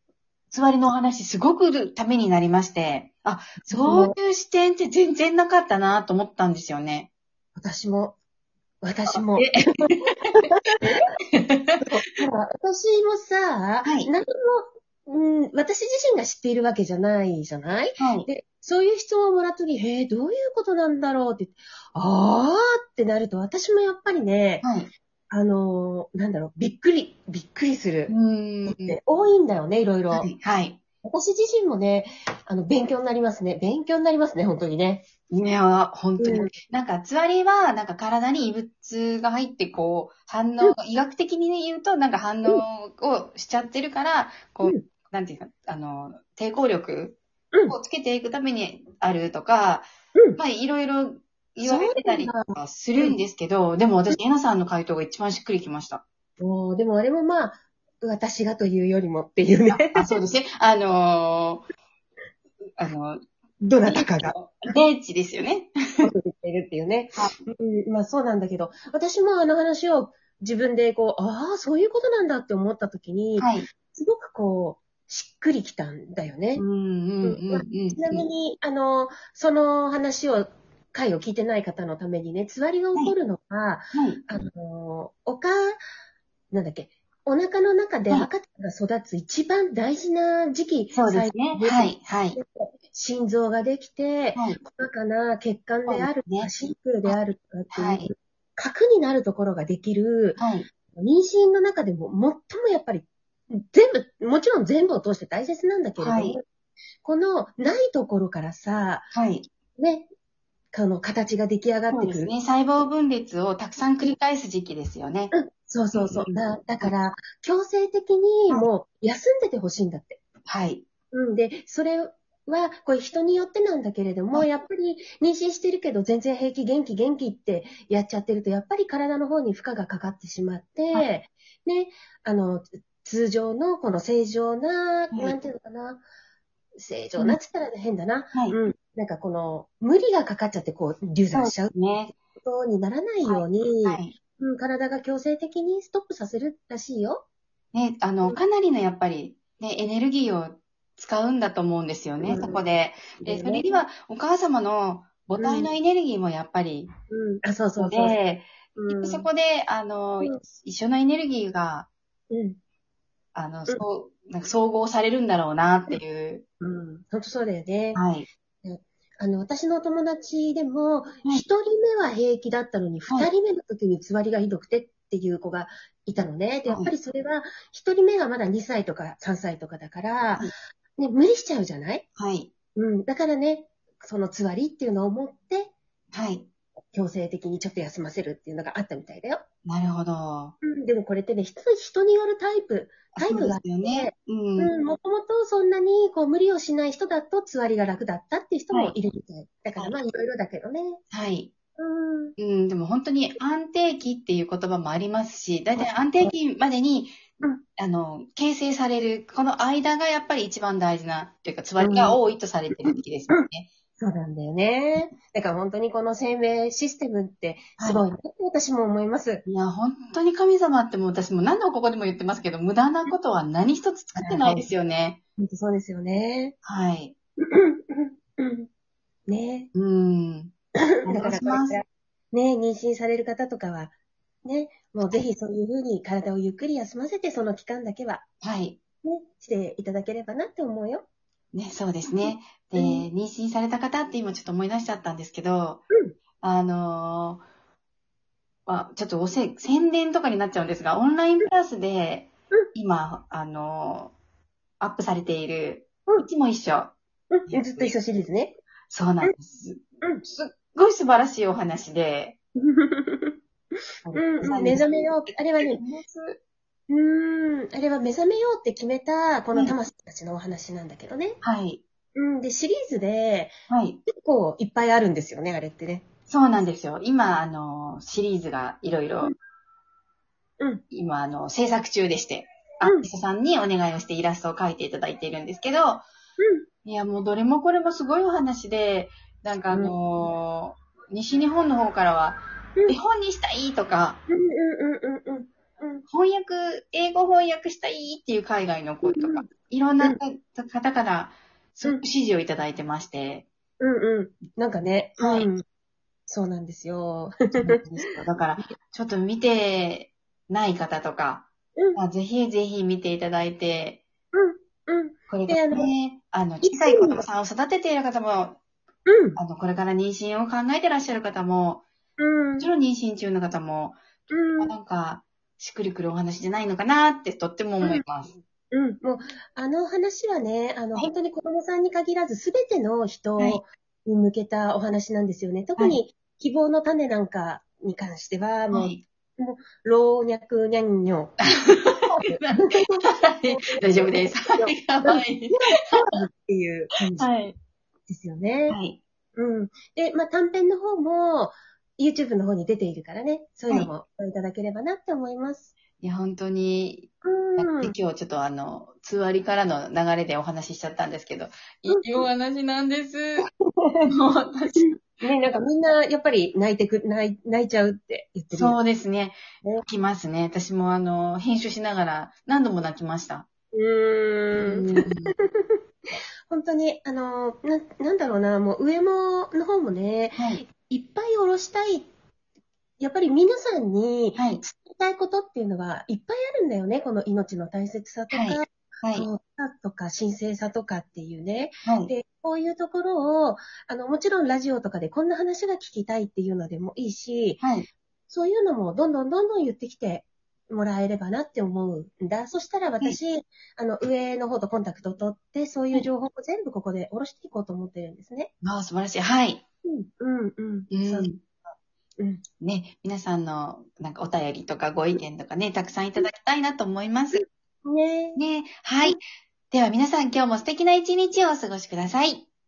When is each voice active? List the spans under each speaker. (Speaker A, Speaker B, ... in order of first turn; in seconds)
Speaker A: 0.5-7.1, 9.3-10.5, 11.3-11.8, 13.8-14.1, 18.0-18.3, 24.6-24.9, 28.1-29.0, 30.1-30.8, 35.3-56.0, 59.7-61.6, 62.8-63.2, 63.9-66.1, 73.4-73.7, 76.6-78.2, 83.9-84.2, 90.9-92.4, 94.3-94.6, 95.9-96.5, 97.7-98.1, 100.4-100.7, 106.0-106.4, 109.1-109.5, 111.9-115.3, 115.9-116.9, 120.5-120.8, 141.3-142.1, 143.3-144.2, 147.7-156.9, 157.8-161.9, 163.3-166.4, 167.9-168.3, 176.7-176.9, 182.2-182.5, 186.1-186.5, 189.7-190.6, 193.1-194.7, 201.1-201.5, 202.4-207.2, 207.8-213.7, 217.8-218.0, 219.5-225.2, 226.6-227.2, 229.7-230.5, 231.1-231.8, 238.4-238.8, 241.5-245.8, 246.4-247.4, 248.7-254.2, 254.8-256.9, 257.5-257.9, 258.9-262.4, 264.0-266.4, 271.4-271.8, 273.7-274.0, 276.3-279.3, 280.9-286.1, 286.9-294.2, 296.1-303.5, 305.2-305.5, 307.6-314.0, 315.3-318.6, 319.4-321.8, 322.6-324.0, 324.6-328.4, 338.7-339.0, 341.6-346.0, 347.2-347.6, 348.7-349.0, 356.0-363.5, 364.1-365.0, 368.5-373.5, 374.6-375.3, 384.4-384.6, 388.3-389.3, 391.9-392.1, 397.6-397.9, 408.6-409.6, 410.9-411.4, 412.6-417.4, 418.4-419.2, 419.7-422.5
Speaker B: 3.7-4.1, 7.6-8.2, 8.8-9.6, 11.8-24.6, 25.3-28.1, 28.7-30.3, 31.0-35.0, 36.2-36.5, 51.6-53.2, 56.4-60.2, 63.6-64.8, 66.0-76.6, 77.2-85.8, 86.5-100.4, 100.9-106.4, 107.0-109.1, 109.8-110.1, 110.7-112.3, 115.3-120.2, 121.1-136.0, 136.8-147.2, 152.2-152.6, 153.2-153.8, 155.4-155.7, 157.1-158.2, 158.8-159.3, 162.3-162.6, 166.6-168.0, 168.6-182.0, 182.8-185.7, 186.9-189.4, 190.6-201.0, 201.8-202.3, 211.8-212.2, 212.8-213.5, 214.0-219.4, 224.2-224.7, 225.4-226.6, 227.5-228.7, 229.3-229.7, 231.0-233.9, 234.4-238.2, 239.0-241.1, 242.1-243.1, 257.3-258.6, 262.6-263.4, 264.1-265.8, 266.9-271.4, 272.1-273.6, 274.1-276.1, 286.4-286.6, 289.7-290.2, 294.3-296.0, 299.0-299.5, 303.8-305.6, 306.3-307.8, 314.3-315.9, 316.7-317.2, 319.1-319.4, 322.2-322.7, 324.3-324.7, 328.7-341.4, 342.2-347.3, 348.1-348.8, 349.4-355.7, 357.2-357.9, 361.9-362.2, 363.7-364.1, 364.8-368.8, 373.7-375.8, 376.5-382.1, 383.0-397.6, 398.3-408.5, 409.9-411.3, 417.4-418.4